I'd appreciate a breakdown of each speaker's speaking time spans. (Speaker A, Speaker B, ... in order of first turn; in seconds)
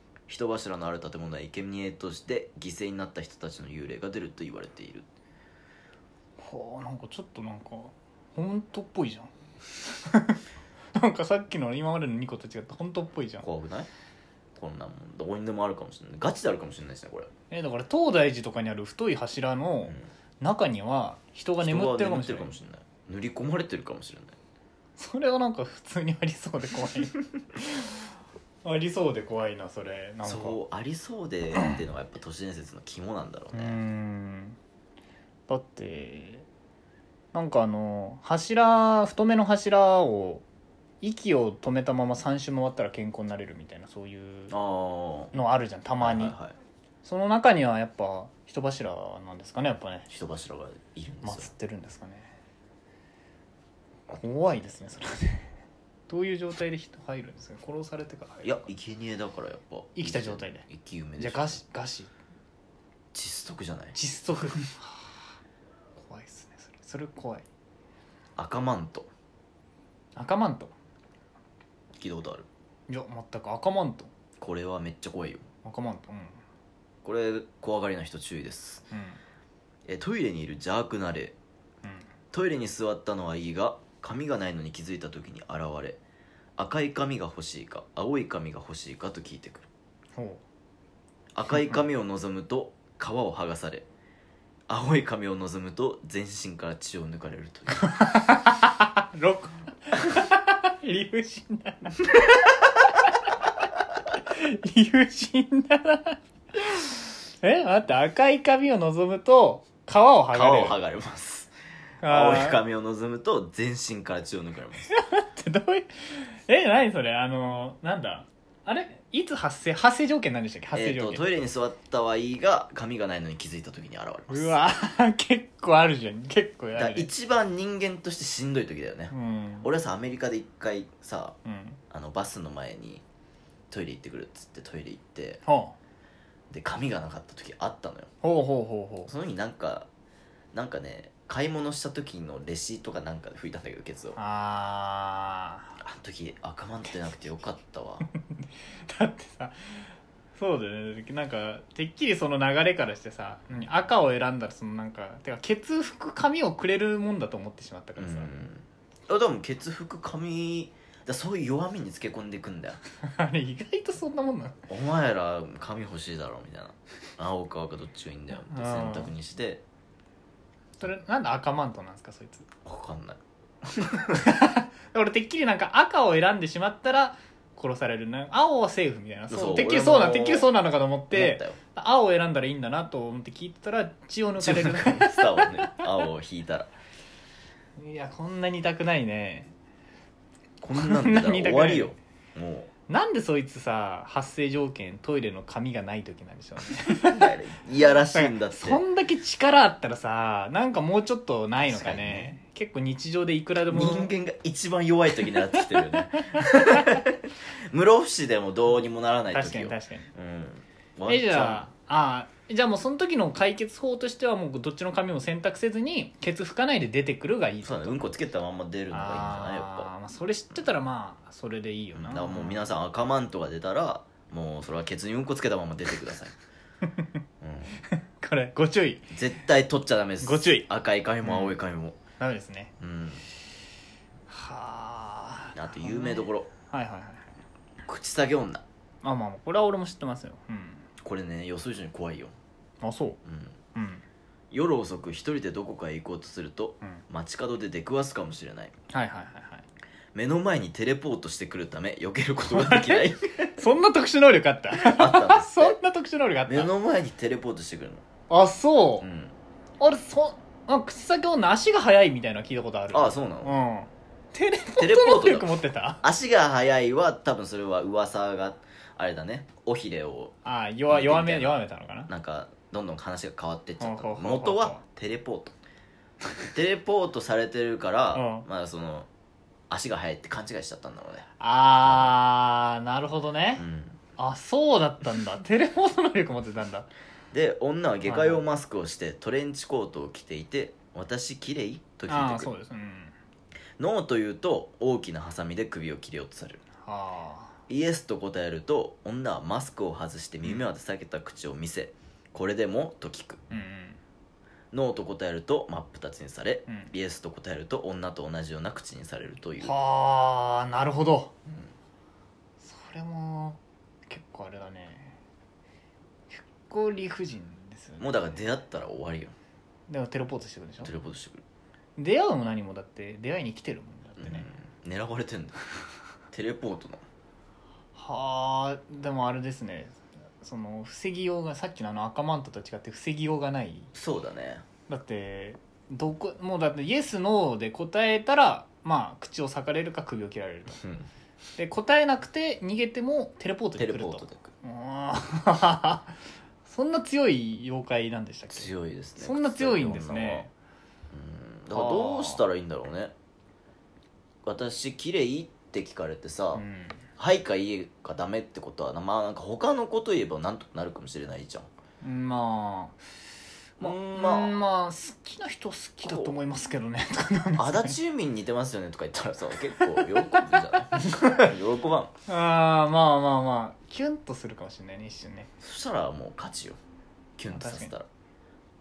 Speaker A: 0.3-5.1, 13.4-13.9, 14.6-17.3, 21.6-24.4, 30.2-33.8, 44.5-45.3, 46.0-46.5, 50.1-51.5, 58.4-61.6, 63.1-64.0, 68.4-69.1, 72.0-72.5, 74.4-75.5, 77.0-78.8, 79.9-81.3, 82.3-86.0, 86.6-89.7, 91.3-93.9, 94.7-97.9, 110.3-111.5, 112.0-114.9, 120.7-124.6, 126.8-131.4, 131.9-133.0, 133.7-135.4, 136.5-138.1, 139.1-139.9, 140.5-144.2, 145.8-148.1, 158.0-162.8, 164.7-169.6, 172.7-174.4, 179.3-180.5, 181.1-181.6, 184.4-186.7, 190.6-192.7, 196.8-198.8, 201.7-202.3, 203.7-211.7, 217.6-219.9, 221.9-226.3, 227.4-227.8, 229.1-232.0, 232.8-233.2, 235.5-236.5, 237.8-238.6, 241.0-242.3, 243.2-243.6, 244.5-248.7, 250.1-253.6, 254.7-255.8, 256.5-258.0, 259.0-259.3, 262.9-263.6, 264.8-270.3, 270.9-275.6, 276.4-279.1, 279.7-281.3, 281.8-282.1, 283.6-284.0, 287.3-292.5, 293.8-296.6, 297.7-303.4, 304.7-309.7, 311.5-311.7, 318.0-319.3, 320.8-321.4, 324.2-325.6, 326.3-327.0, 333.9-334.6, 340.8-341.1, 343.8-344.5, 348.5-350.5, 351.1-353.1, 354.4-356.6, 357.2-361.7, 363.8-364.6, 366.0-366.4, 367.6-372.1, 375.6-376.8, 377.4-378.1
Speaker B: 6.4-9.3, 9.9-10.4, 10.9-13.5, 17.5-22.6, 25.0-28.0, 28.6-30.6, 33.5-34.6, 35.5-36.5, 37.3-40.4, 41.0-44.5, 45.3-46.4, 47.0-50.1, 51.2-52.3, 54.1-55.5, 56.1-58.7, 60.0-60.7, 61.2-62.1, 63.9-65.2, 66.0-67.5, 70.2-70.7, 72.9-74.1, 75.6-76.4, 78.9-79.2, 90.2-90.4, 97.8-103.3, 104.2-106.2, 107.4-110.8, 112.0-112.6, 114.9-121.2, 124.3-127.1, 129.1-129.7, 131.4-131.8, 135.5-135.8, 138.2-139.1, 144.2-145.8, 148.3-158.5, 163.0-164.7, 168.5-169.1, 170.8-172.5, 174.1-185.8, 187.8-189.5, 190.7-191.9, 192.9-197.3, 198.1-204.1, 205.5-207.0, 209.3-210.1, 211.1-218.1, 218.9-222.6, 227.8-229.1, 230.2-230.7, 231.2-231.6, 232.2-232.7, 234.3-237.3, 239.0-240.9, 242.8-243.2, 243.8-244.0, 248.9-249.7, 252.5-256.7, 258.3-259.1, 259.8-266.0, 270.4-272.1, 273.8-274.8, 278.1-278.5, 281.4-283.6, 284.2-286.9, 288.1-288.4, 292.1-293.1, 296.8-297.6, 303.5-304.0, 309.6-311.3, 312.6-315.2, 316.3-318.4, 319.9-320.9, 322.0-324.5, 327.9-333.9, 334.9-340.8, 341.6-350.5, 351.7-352.4, 356.6-357.1, 362.0-363.0, 363.8-368.0, 370.0-370.4, 371.0-371.5, 372.3-375.5, 377.5-377.9